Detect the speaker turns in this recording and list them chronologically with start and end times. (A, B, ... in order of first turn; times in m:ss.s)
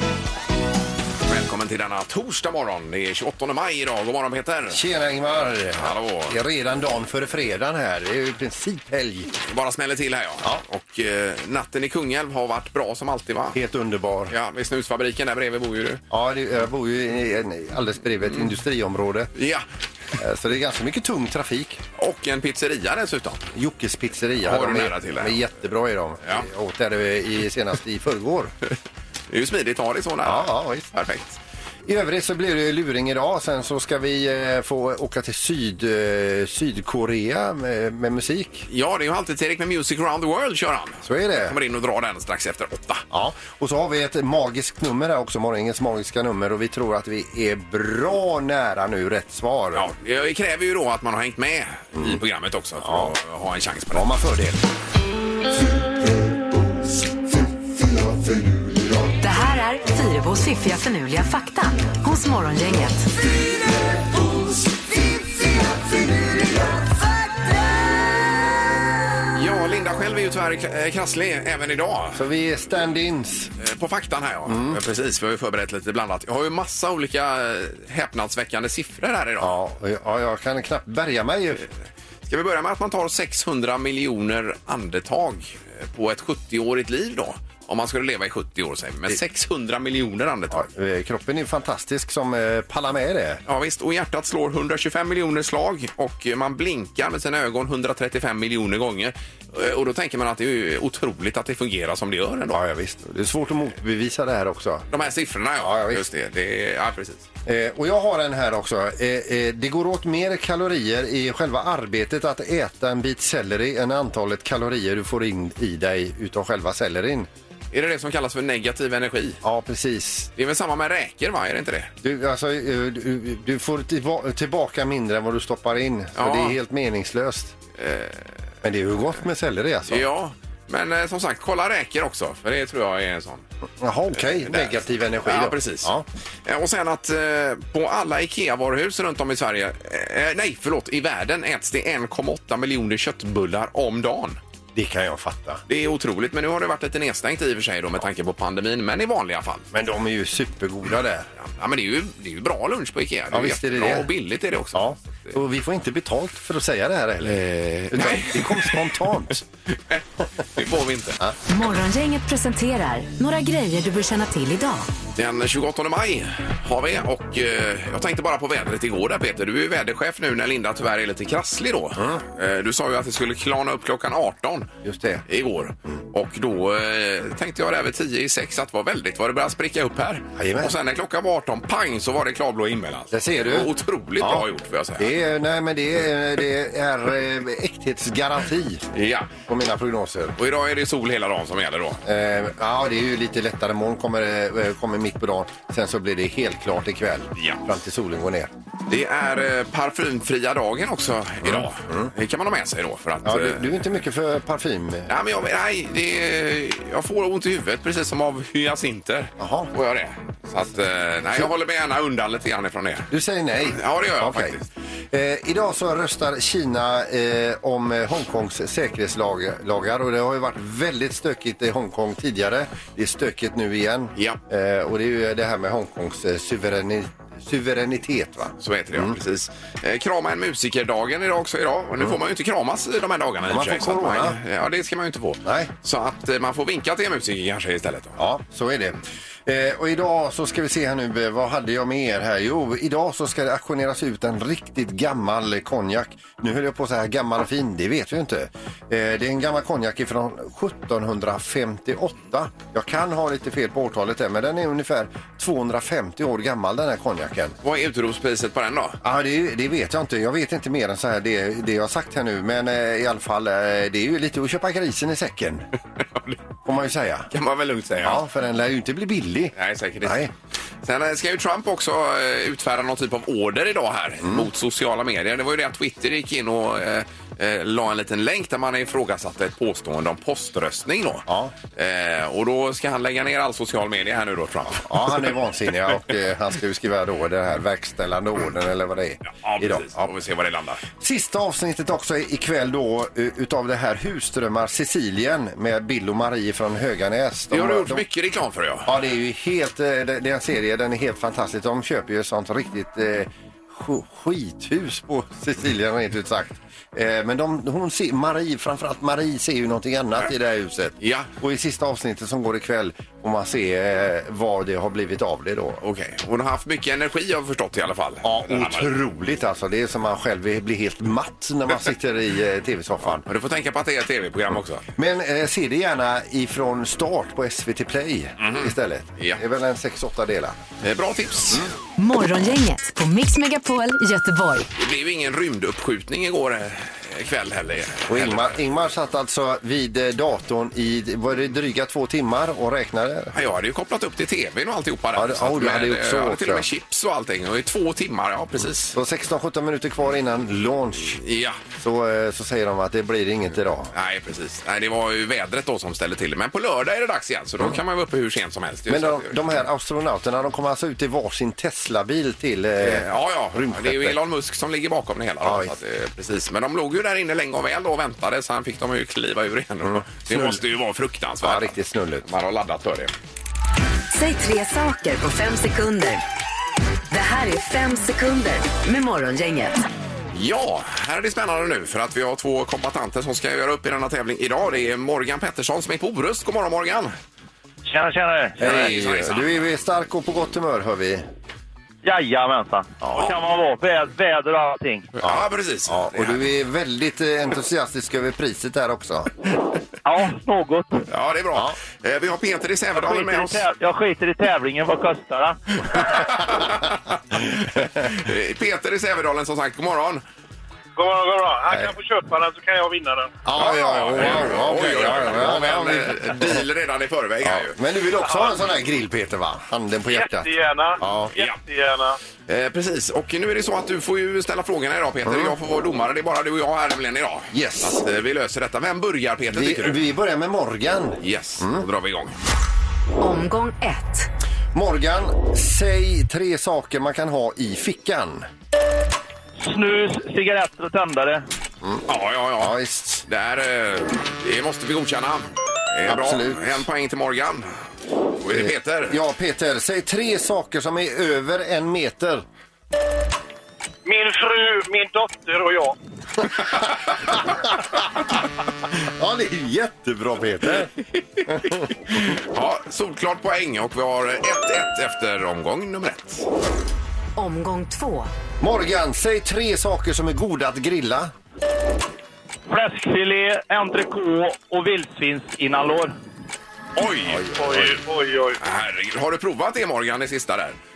0:01.3-0:04.8 A
0:04.7-0:09.3 B
0:05.8-0:06.4 A
0:09.4-0:13.6 A
0:13.5-0:14.3 B
0:14.3-0:16.0 A
0:16.1-0:19.3 B
0:18.2-0:18.6 A
0:19.3-0:19.6 A
0:20.2-0:21.8 B
0:22.0-0:23.5 A
0:23.5-0:28.5 B
0:24.4-0:25.4 A
0:29.3-0:31.4 A
0:30.2-0:30.9 B
0:31.8-0:38.7 B
0:38.7-0:43.0 A
0:41.0-0:41.6 B
0:43.1-0:49.9 B
0:49.7-0:54.1 A
0:52.8-0:53.1 B
0:53.9-0:54.6 B
0:59.2-1:03.1 C
1:09.3-1:12.2 A
1:12.1-1:13.5 B
1:13.6-1:19.5 A
1:14.4-1:14.8 B
1:19.4-1:21.6 B
1:22.2-1:30.7 A
1:30.5-1:33.4 B
1:33.4-1:42.6 A
1:42.5-1:44.9 B
1:44.9-1:47.3 A
1:45.6-1:46.0 B
1:47.4-1:57.3 B
1:57.7-1:59.4 A
1:59.4-2:00.3 B
2:00.4-2:01.9 A
2:02.0-2:07.5 B
2:06.1-2:06.6 A
2:07.8-2:08.4 A
2:08.6-2:10.0 B
2:09.9-2:13.4 A
2:13.8-2:16.0 B
2:14.1-2:15.9 A
2:16.4-2:24.4 A
2:24.7-2:25.6 B
2:25.7-2:29.7 A
2:29.7-2:31.3 B
2:31.4-2:35.4 A
2:33.3-2:34.1 B
2:34.7-2:39.4 B
2:37.2-2:39.0 A
2:40.6-2:41.2 A
2:41.5-2:44.9 C
2:45.2-2:54.7 A
2:51.9-2:52.2 B
2:54.8-2:55.2 B
2:55.3-3:05.1 A
3:00.4-3:00.7 B
3:03.1-3:04.4 B
3:05.0-3:08.8 B
3:08.9-3:09.4 A
3:09.5-3:10.4 B
3:10.4-3:12.0 A
3:12.0-3:18.5 B
3:17.3-3:17.6 A
3:18.9-3:23.8 A
3:21.4-3:22.1 B
3:23.2-3:25.1 B
3:25.1-3:33.1 A
3:29.4-3:29.7 B
3:33.1-3:34.6 B
3:33.7-3:34.6 A
3:35.1-3:49.2 B
3:44.2-3:44.4 A
3:48.6-3:58.2 A
3:53.5-3:54.4 B
3:55.4-3:55.7 B
3:58.2-4:17.6 B
4:17.6-4:19.0 A
4:19.0-4:25.6 B
4:26.0-4:26.4 A
4:26.6-4:27.3 B
4:27.3-4:28.2 A
4:28.0-4:30.3 B
4:29.5-4:30.3 A
4:30.8-4:45.2 A
4:34.2-4:34.5 B
4:41.3-4:41.5 B
4:44.8-4:50.0 B
4:49.3-4:50.8 A
4:51.0-4:58.0 B
4:57.5-4:58.9 A
4:58.8-5:15.8 B
5:11.0-5:11.3 A
5:15.8-5:19.0 A
5:18.2-5:23.2 B
5:23.0-5:24.8 A
5:25.0-5:30.6 B
5:28.4-5:29.4 A
5:30.8-5:31.7 A
5:32.0-5:34.7 C
5:34.8-5:38.6 A
5:38.1-5:43.3 B
5:43.3-5:49.0 A
5:45.1-5:46.6 B
5:48.9-5:51.2 B
5:51.2-5:51.6 A
5:51.8-5:53.9 B
5:53.9-5:59.5 A
5:58.9-6:04.2 B
6:02.8-6:11.7 A
6:05.4-6:05.7 B
6:10.0-6:10.6 B
6:11.4-6:12.2 B
6:12.2-6:13.1 A
6:14.1-6:16.2 C
6:17.1-6:19.8 C
6:20.3-6:27.1 A
6:27.8-6:28.9 D
6:28.6-6:31.2 B
6:28.6-6:29.6 A
6:32.0-6:35.1 D
6:35.2-6:36.4 A
6:35.2-6:39.3 B
6:40.0-6:41.0 D
6:41.1-6:43.6 A
6:42.9-6:46.0 D
6:45.8-6:50.2 A
6:51.0-6:53.3 E
6:53.4-6:56.6 B
6:53.5-6:57.8 A
6:57.4-7:00.5 B
7:00.1-7:02.2 E
7:01.0-7:01.3 B
7:02.5-7:10.0 A
7:05.2-7:05.5 B
7:07.5-7:08.0 B
7:09.5-7:11.8 B
7:11.2-7:12.4 A
7:13.2-7:14.3 C
7:14.7-7:18.4 B
7:19.6-7:21.4 D
7:22.1-7:27.7 A
7:22.6-7:23.2 B
7:26.0-7:26.8 B
7:28.4-7:29.2 A
7:28.5-7:32.4 B
7:34.0-7:36.0 E
7:39.2-7:40.9 B
7:41.1-7:46.4 A
7:41.5-7:41.8 B
7:47.4-7:48.3 C
7:48.6-7:51.3 B
7:52.7-7:56.1 D
7:57.0-7:57.5 A
7:57.3-7:57.9 B
7:57.5-7:58.6 E
7:58.6-8:00.8 A